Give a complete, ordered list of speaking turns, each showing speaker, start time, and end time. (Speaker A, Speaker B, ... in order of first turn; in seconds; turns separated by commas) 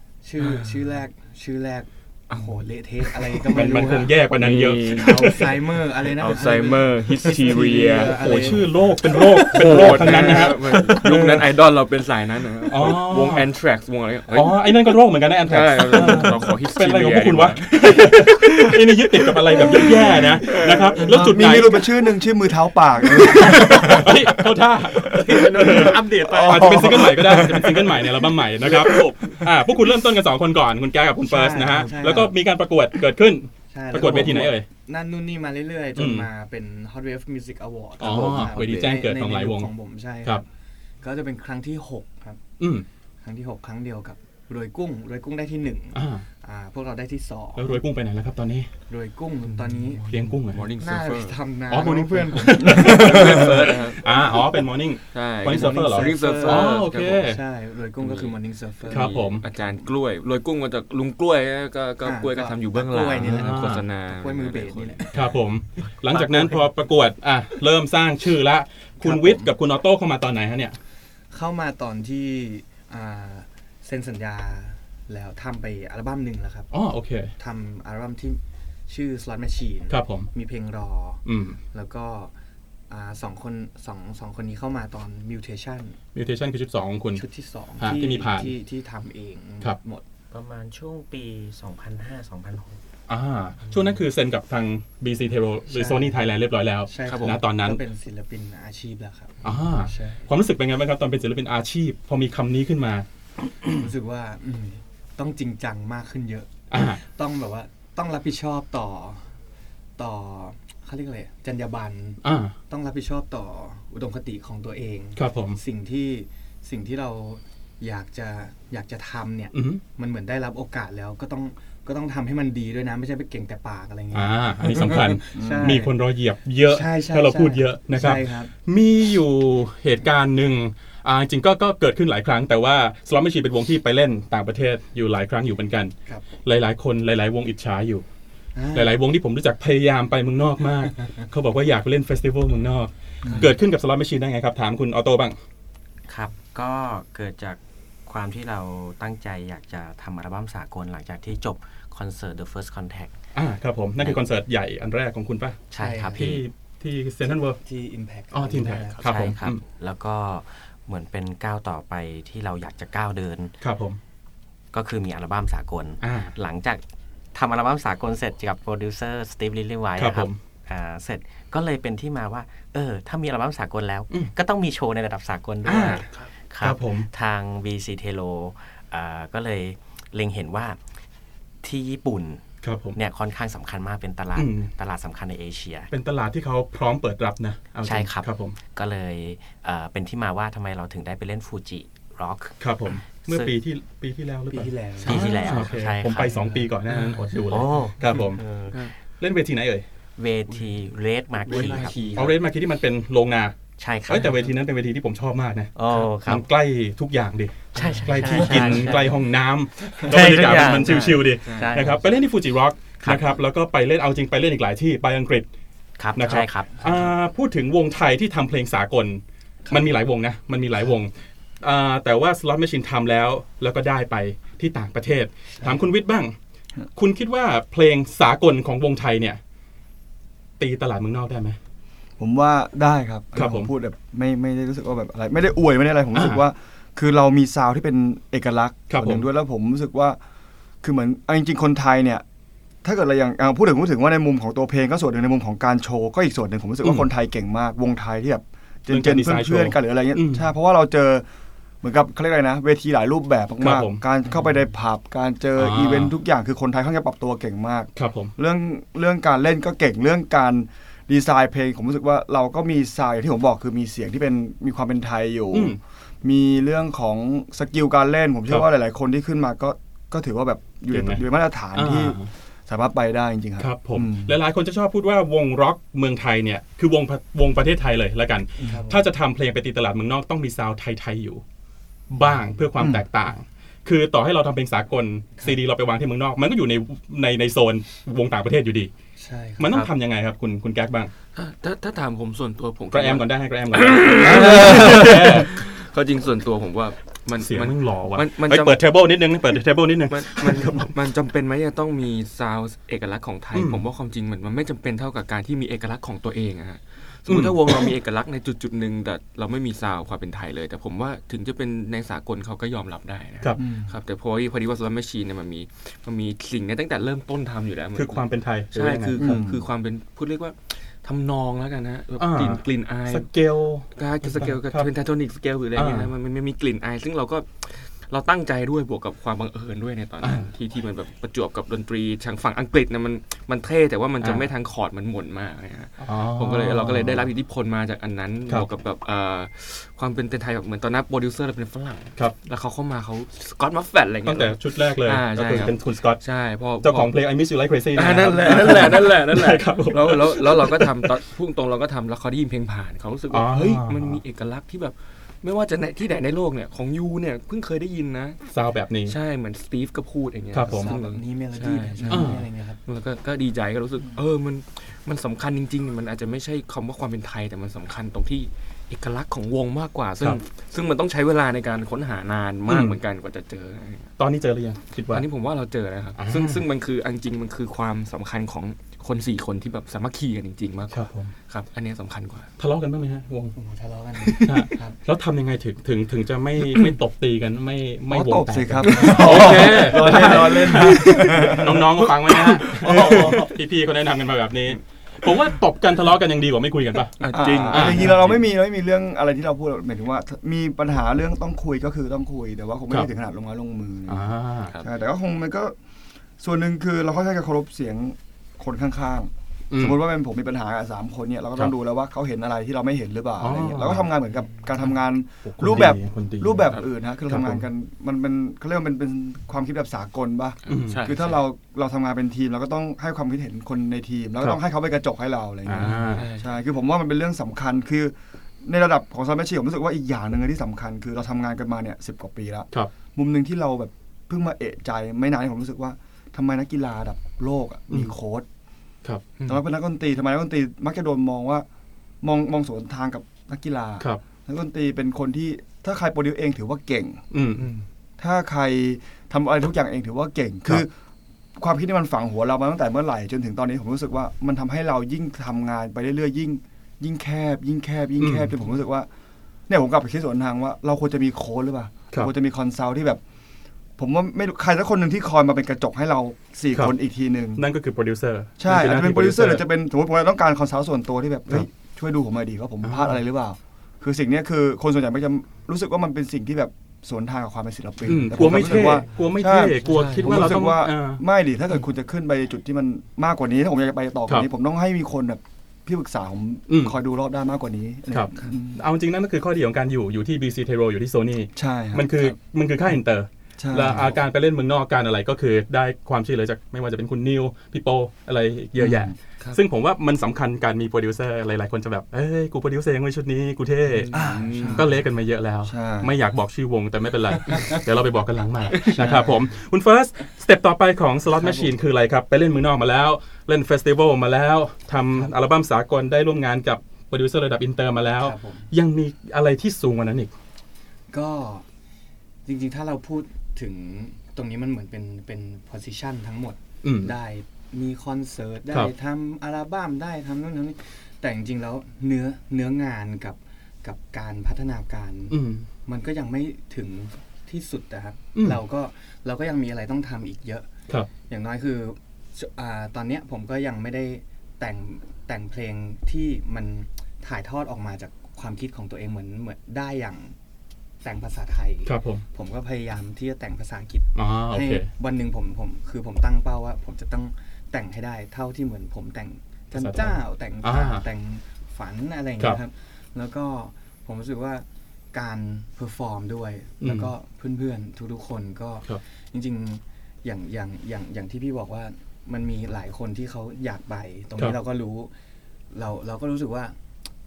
Speaker A: 0.2-4.1, Speaker B: 0.4-0.8, Speaker B: 2.3-14.7, Speaker C: 3.5-5.5, Speaker A: 4.8-10.8, Speaker C: 7.9-11.5, Speaker C: 12.7-13.5, Speaker C: 14.3-21.8, Speaker B: 15.4-18.3, Speaker B: 19.5-21.0, Speaker A: 20.4-21.3, Speaker D: 21.1-24.1, Speaker A: 23.3-24.2, Speaker C: 23.6-34.7, Speaker A: 25.0-27.3, Speaker D: 25.3-28.0, Speaker B: 28.6-29.3, Speaker A: 31.2-32.3, Speaker A: 33.7-40.5, Speaker C: 36.0-36.3, Speaker C: 38.0-39.7, Speaker B: 38.0-39.0, Speaker A: 41.0-42.4, Speaker C: 42.6-42.9, Speaker A: 43.2-47.8, Speaker C: 45.9-46.2, Speaker C: 47.5-48.7, Speaker A: 48.9-50.2, Speaker B: 49.7-51.4, Speaker C: 50.0-50.7, Speaker A: 50.8-53.4, Speaker C: 51.7-57.4, Speaker B: 52.5-54.0, Speaker B: 55.1-57.3, Speaker A: 55.5-59.8, Speaker B: 58.0-58.3, Speaker B: 58.8-65.1, Speaker C: 58.9-59.4, Speaker A: 62.0-65.2, Speaker C: 63.2-63.9, Speaker C: 65.1-70.8, Speaker A: 66.1-66.5, Speaker A: 69.0-69.5, Speaker A: 71.3-76.7, Speaker C: 76.7-77.3, Speaker A: 77.4-82.3, Speaker C: 79.9-80.3, Speaker C: 81.2-81.6, Speaker A: 82.9-86.0, Speaker C: 86.1-87.2, Speaker A: 87.2-90.0, Speaker C: 87.8-88.5, Speaker E: 90.3-92.8, Speaker C: 93.1-97.8, Speaker A: 95.7-96.2, Speaker A: 96.9-100.2, Speaker B: 97.0-97.4, Speaker C: 99.4-103.0, Speaker A: 103.7-109.3, Speaker C: 106.7-107.0, Speaker A: 110.0-125.9, Speaker C: 112.2-112.5, Speaker C: 115.2-115.6, Speaker C: 119.5-119.8, Speaker C: 124.1-138.0, Speaker D: 125.3-125.7, Speaker A: 126.7-128.5, Speaker A: 138.5-138.9, Speaker C: 138.7-145.3, Speaker E: 146.1-153.2, Speaker C: 153.3-155.6, Speaker E: 154.0-154.2, Speaker E: 155.7-156.4, Speaker A: 155.8-156.3, Speaker C: 156.2-157.6, Speaker A: 157.2-159.1, Speaker C: 158.3-159.6, Speaker E: 159.0-163.6, Speaker C: 163.6-164.0, Speaker E: 164.7-166.8, Speaker C: 166.0-166.3, Speaker E: 167.3-180.8, Speaker C: 170.0-170.4, Speaker C: 175.6-176.1, Speaker C: 176.6-177.1, Speaker E: 181.6-185.9, Speaker C: 182.6-183.0, Speaker C: 184.3-184.7, Speaker C: 185.9-188.6, Speaker E: 187.8-193.6, Speaker C: 192.6-198.4, Speaker A: 194.5-195.3, Speaker B: 195.0-195.7, Speaker E: 195.1-196.5, Speaker B: 196.9-197.3, Speaker E: 197.5-198.9, Speaker C: 199.2-199.8, Speaker E: 200.2-202.1, Speaker A: 201.5-202.3, Speaker B: 201.5-202.3, Speaker C: 202.2-203.5, Speaker E: 203.8-204.4, Speaker C: 204.1-215.5, Speaker E: 205.7-206.5, Speaker E: 207.7-209.2, Speaker B: 207.8-209.0, Speaker A: 207.8-208.8, Speaker E: 209.9-212.0, Speaker B: 211.4-211.8, Speaker E: 213.0-213.4, Speaker E: 216.0-217.0, Speaker C: 216.1-226.3, Speaker A: 219.7-219.9, Speaker A: 225.5-225.8, Speaker C: 226.9-229.4, Speaker C: 230.6-231.6, Speaker D: 232.2-240.2, Speaker C: 233.3-233.7, Speaker C: 236.1-236.4, Speaker C: 238.9-239.3, Speaker D: 240.8-242.2, Speaker D: 242.8-251.2, Speaker C: 248.9-250.5, Speaker D: 251.8-272.1, Speaker C: 253.6-254.0, Speaker C: 255.6-256.1, Speaker C: 257.9-258.3, Speaker C: 265.5-265.8, Speaker C: 270.9-272.3, Speaker D: 272.7-274.3, Speaker C: 273.6-281.4, Speaker A: 278.6-279.1, Speaker C: 282.1-288.9, Speaker D: 282.8-283.0, Speaker A: 289.2-289.9, Speaker C: 289.6-291.1, Speaker B: 291.3-298.8, Speaker C: 292.9-295.7, Speaker C: 297.4-300.9, Speaker B: 300.1-323.3, Speaker C: 303.5-303.9, Speaker C: 307.3-307.9, Speaker D: 313.6-313.9, Speaker C: 317.9-319.4, Speaker D: 319.2-319.6, Speaker C: 322.2-324.9, Speaker B: 323.9-347.1, Speaker C: 325.7-326.1, Speaker C: 330.2-330.5, Speaker C: 334.2-334.5, Speaker C: 336.0-337.3, Speaker C: 344.2-346.2, Speaker C: 346.8-351.1, Speaker B: 347.9-358.4, Speaker C: 353.3-354.2, Speaker C: 358.5-359.1, Speaker B: 359.1-374.1, Speaker C: 360.5-360.9, Speaker A: 360.6-362.8, Speaker C: 362.1-362.5, Speaker C: 372.7-373.0, Speaker C: 374.2-375.2, Speaker B: 375.1-382.5, Speaker C: 376.2-376.7, Speaker C: 380.9-381.3, Speaker C: 382.6-383.5, Speaker A: 383.5-385.0, Speaker C: 384.4-398.3, Speaker D: 388.1-393.5, Speaker B: 388.8-391.5, Speaker B: 392.3-393.4, Speaker B: 397.2-398.4, Speaker D: 397.3-405.7, Speaker C: 404.1-404.7, Speaker D: 406.4-438.4, Speaker C: 409.7-410.0, Speaker C: 413.4-414.1, Speaker C: 415.4-417.6, Speaker B: 420.6-421.4, Speaker C: 420.7-421.1, Speaker C: 425.6-426.3, Speaker B: 425.7-426.5, Speaker D: 439.4-441.6, Speaker D: 442.2-447.2, Speaker C: 447.3-447.7, Speaker B: 447.6-447.8, Speaker D: 448.2-450.9, Speaker D: 451.6-459.1, Speaker C: 458.2-458.5, Speaker D: 459.7-463.2, Speaker D: 464.0-467.6, Speaker C: 467.6-469.6, Speaker D: 468.6-488.8, Speaker C: 472.8-473.2, Speaker C: 478.1-481.2, Speaker B: 479.8-480.6, Speaker C: 486.7-486.9, Speaker C: 488.1-504.1, Speaker D: 491.6-492.3, Speaker D: 493.6-494.1, Speaker D: 498.8-499.1, Speaker B: 503.9-504.9, Speaker D: 504.1-504.9, Speaker C: 504.7-520.3, Speaker D: 505.6-506.1, Speaker A: 509.0-509.4, Speaker A: 511.4-511.7, Speaker A: 518.2-518.7, Speaker A: 521.1-521.6, Speaker A: 522.4-540.7, Speaker C: 526.8-527.1, Speaker C: 535.3-535.7, Speaker C: 538.3-538.6, Speaker A: 541.3-550.3, Speaker A: 551.0-575.1, Speaker C: 551.9-552.2, Speaker C: 554.1-554.9, Speaker C: 559.7-561.0, Speaker C: 566.8-567.1, Speaker A: 575.7-576.8